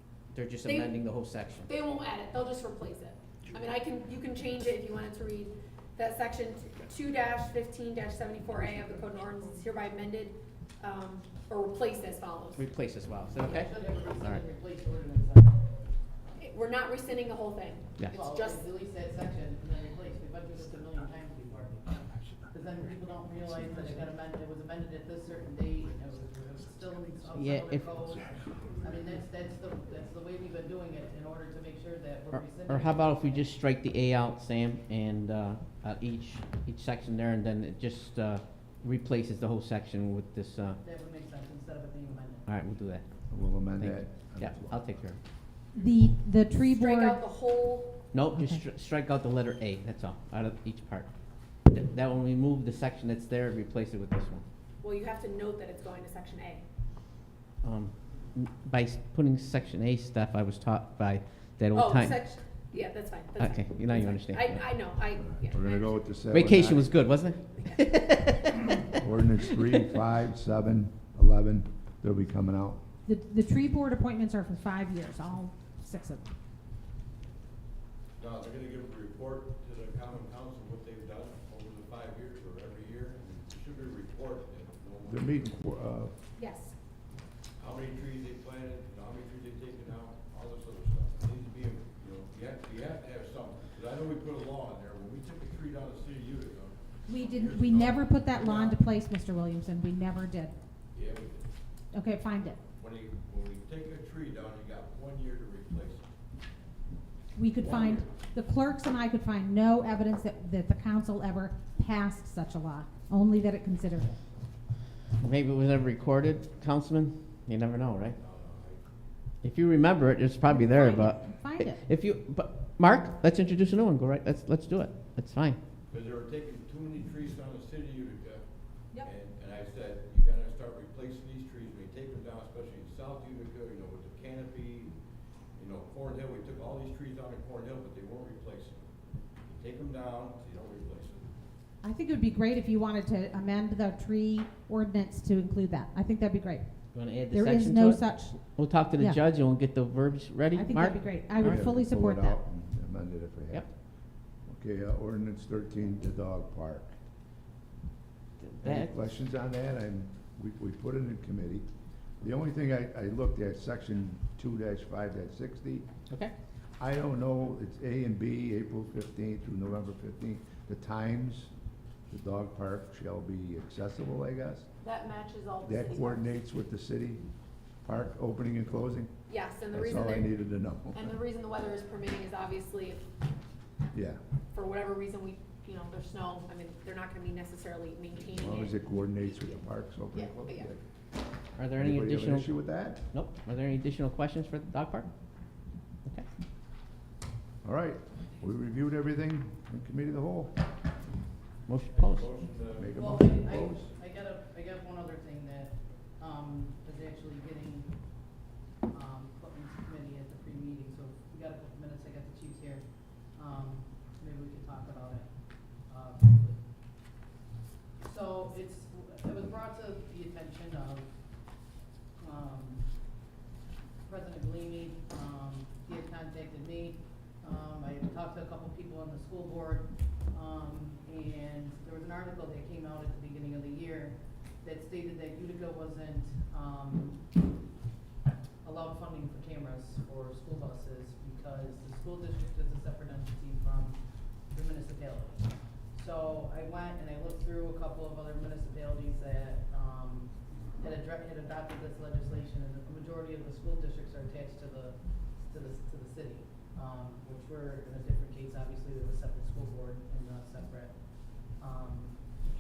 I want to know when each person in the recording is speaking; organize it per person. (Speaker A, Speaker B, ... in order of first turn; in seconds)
Speaker A: 0.3-1.7, 12.6-14.4, 27.4-27.9, 32.3-40.8, 42.5-43.0, 43.7-45.2, 48.1-51.1, 51.7-54.4, 57.6-62.2, 63.4-64.9, 66.3-68.8, 115.2-118.2, 119.4-125.6, 146.9-151.7, 158.4-159.1, 191.6-192.5, 193.1-195.1, 201.7-202.3
Speaker B: 0.6-1.0, 1.7-12.7, 16.4-18.6, 46.6-47.9, 54.8-56.6, 61.7-66.0, 86.4-86.7, 174.8-176.3, 179.3-180.4, 180.9-183.0, 184.5-190.7
Speaker C: 13.4-15.6, 18.1-33.5, 40.8-42.5, 202.9-207.9, 208.9-215.3, 215.9-216.6, 218.0-221.1, 222.2-222.9, 224.1-237.2, 238.6-244.0, 244.5-260.9, 261.6-262.2
Speaker D: 43.3-44.8, 65.3-67.0, 69.0-72.8, 85.1-86.1, 151.3-153.7, 154.5-156.9, 158.6-161.7, 162.2-165.9, 166.8-171.5, 172.1-174.7, 175.6-177.2, 177.8-179.1, 179.7-181.1, 183.9-184.2, 188.4-190.8, 191.8-193.0, 197.6-200.6, 202.8-203.9
Speaker E: 45.8-47.3, 48.3-48.6, 73.1-76.3, 97.1-100.6, 101.9-102.6, 107.3-114.2, 120.5-121.8, 141.8-149.2, 150.5-152.4
Speaker F: 78.2-85.7, 87.6-98.8, 100.9-101.5, 102.8-106.0, 107.5-108.0, 118.2-118.8, 125.9-128.4, 129.0-134.9, 135.6-138.9, 139.5-141.3, 201.9-203.6